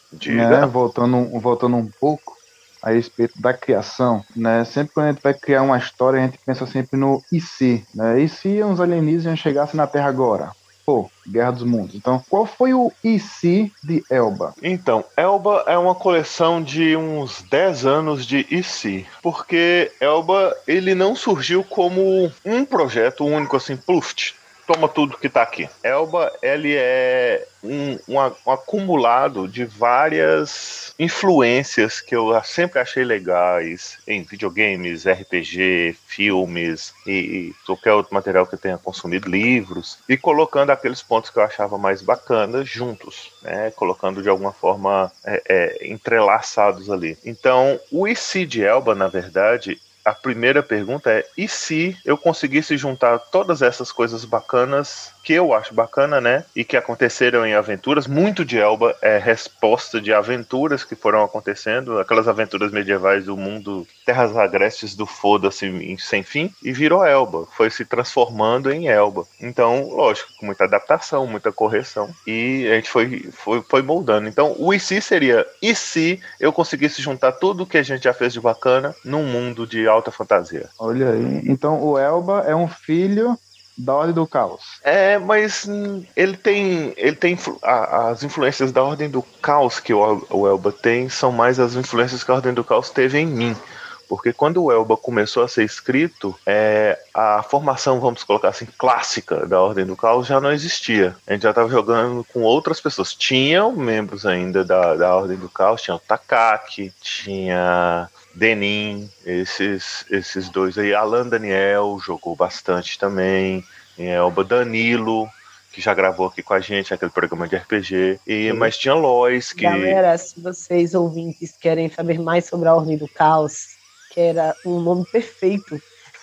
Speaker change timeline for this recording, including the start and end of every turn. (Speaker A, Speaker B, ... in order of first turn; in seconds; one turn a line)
Speaker A: 0.1-0.7
Speaker B: 0.3-14.5
Speaker A: 14.6-80.7
Speaker B: 80.8-84.8
Speaker A: 84.8-120.0
Speaker C: 119.5-125.8